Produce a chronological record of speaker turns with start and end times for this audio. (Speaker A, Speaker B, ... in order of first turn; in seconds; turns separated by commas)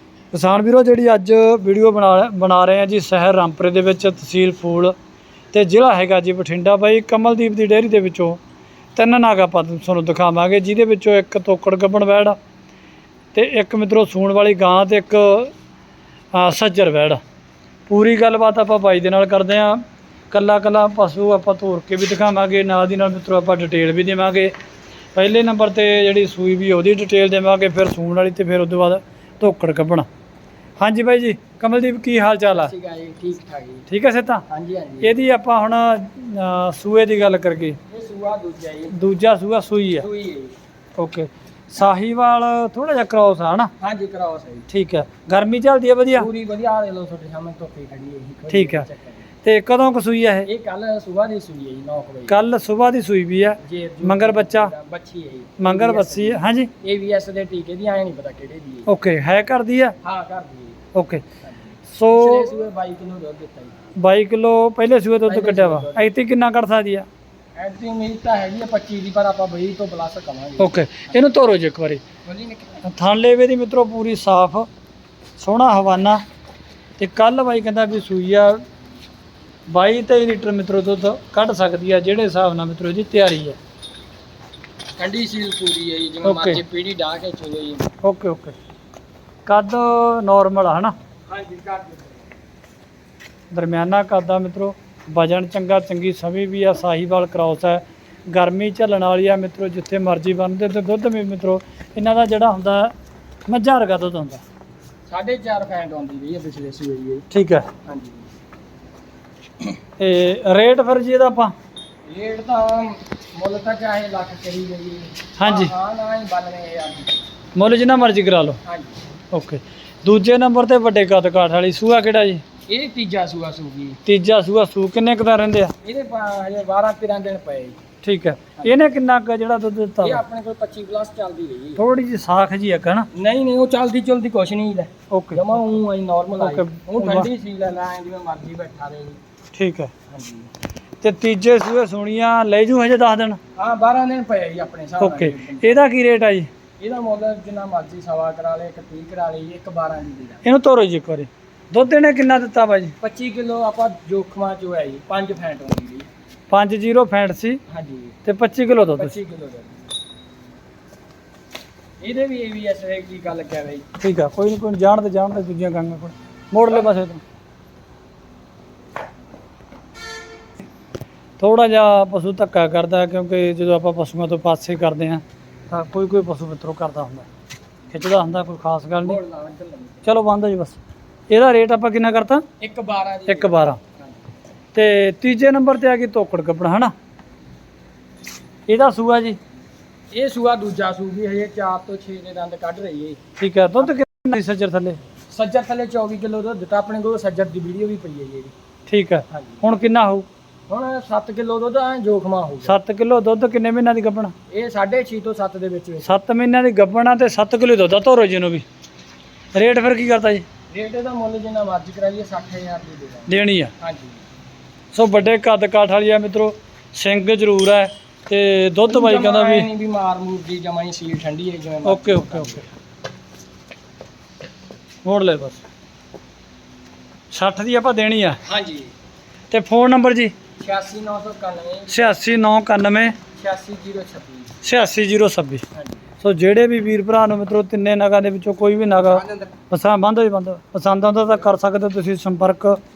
Speaker A: 0.3-4.9, Speaker A: 5.5-8.4, Speaker A: 9.0-12.4, Speaker A: 13.3-15.5, Speaker A: 16.3-17.2, Speaker A: 17.9-24.5, Speaker A: 25.1-30.1, Speaker A: 30.8-32.7, Speaker B: 32.5-33.9, Speaker A: 33.9-34.4, Speaker B: 34.5-35.1, Speaker A: 35.0-37.8, Speaker B: 37.9-39.0, Speaker A: 38.9-40.0, Speaker B: 40.0-40.5, Speaker A: 41.0-43.7, Speaker B: 43.8-44.7, Speaker A: 44.7-46.3, Speaker B: 46.1-49.2, Speaker A: 48.5-48.9, Speaker A: 49.4-50.5, Speaker B: 50.5-52.4, Speaker A: 52.3-54.7, Speaker B: 53.6-58.9, Speaker A: 55.6-56.7, Speaker A: 58.9-60.0, Speaker B: 60.0-60.8, Speaker A: 60.9-61.2, Speaker B: 61.4-63.8, Speaker A: 61.9-62.5, Speaker A: 64.0-67.1, Speaker B: 65.2-66.1, Speaker B: 67.5-71.2, Speaker A: 70.6-72.0, Speaker B: 72.2-72.8, Speaker A: 72.8-74.7, Speaker A: 75.4-76.2, Speaker A: 77.0-78.6, Speaker A: 79.7-83.6, Speaker B: 85.0-87.9, Speaker A: 86.2-86.6, Speaker A: 88.0-88.5, Speaker A: 89.5-90.9, Speaker B: 91.3-92.3, Speaker A: 93.5-102.9, Speaker A: 103.5-104.4, Speaker B: 105.1-107.2, Speaker A: 107.3-107.7, Speaker B: 107.8-108.3, Speaker A: 110.0-111.5, Speaker B: 112.0-117.3, Speaker A: 115.4-115.7, Speaker A: 117.5-118.6, Speaker B: 118.6-119.0, Speaker A: 119.3-122.4, Speaker B: 122.7-124.0, Speaker A: 124.0-125.7, Speaker B: 125.8-127.8, Speaker A: 128.0-130.2, Speaker B: 130.0-131.8, Speaker A: 131.8-133.1, Speaker B: 133.1-139.2, Speaker A: 135.1-135.6, Speaker A: 136.4-137.3, Speaker A: 139.5-139.9, Speaker B: 140.1-140.5, Speaker A: 141.0-143.4, Speaker B: 143.6-145.8, Speaker A: 145.0-146.5, Speaker B: 146.8-150.5, Speaker A: 150.4-152.9, Speaker B: 153.0-156.1, Speaker A: 156.5-157.6, Speaker B: 157.7-158.2, Speaker A: 158.2-159.1, Speaker B: 159.0-159.8, Speaker B: 162.0-163.8, Speaker A: 164.0-167.2, Speaker A: 171.4-177.3, Speaker A: 177.9-179.2, Speaker B: 179.0-180.1, Speaker A: 180.1-180.8, Speaker A: 181.3-182.4, Speaker B: 182.6-184.2, Speaker A: 183.3-183.8, Speaker A: 184.7-186.9, Speaker A: 188.7-189.4, Speaker B: 190.1-193.2, Speaker A: 193.4-195.0, Speaker B: 195.3-198.5, Speaker A: 198.9-200.3, Speaker B: 199.3-199.7, Speaker B: 200.7-202.8, Speaker A: 202.6-204.3, Speaker B: 204.5-206.2, Speaker A: 206.1-208.7, Speaker A: 209.5-210.4, Speaker B: 210.7-214.2, Speaker A: 213.3-213.7, Speaker A: 214.9-219.7, Speaker B: 218.9-222.7, Speaker A: 221.8-222.7, Speaker A: 225.0-225.6, Speaker A: 227.3-228.4, Speaker B: 228.4-228.9, Speaker A: 229.5-230.3, Speaker B: 230.6-232.1, Speaker A: 231.9-233.2, Speaker B: 233.3-234.5, Speaker A: 234.6-235.6, Speaker B: 235.7-236.1, Speaker A: 236.2-242.8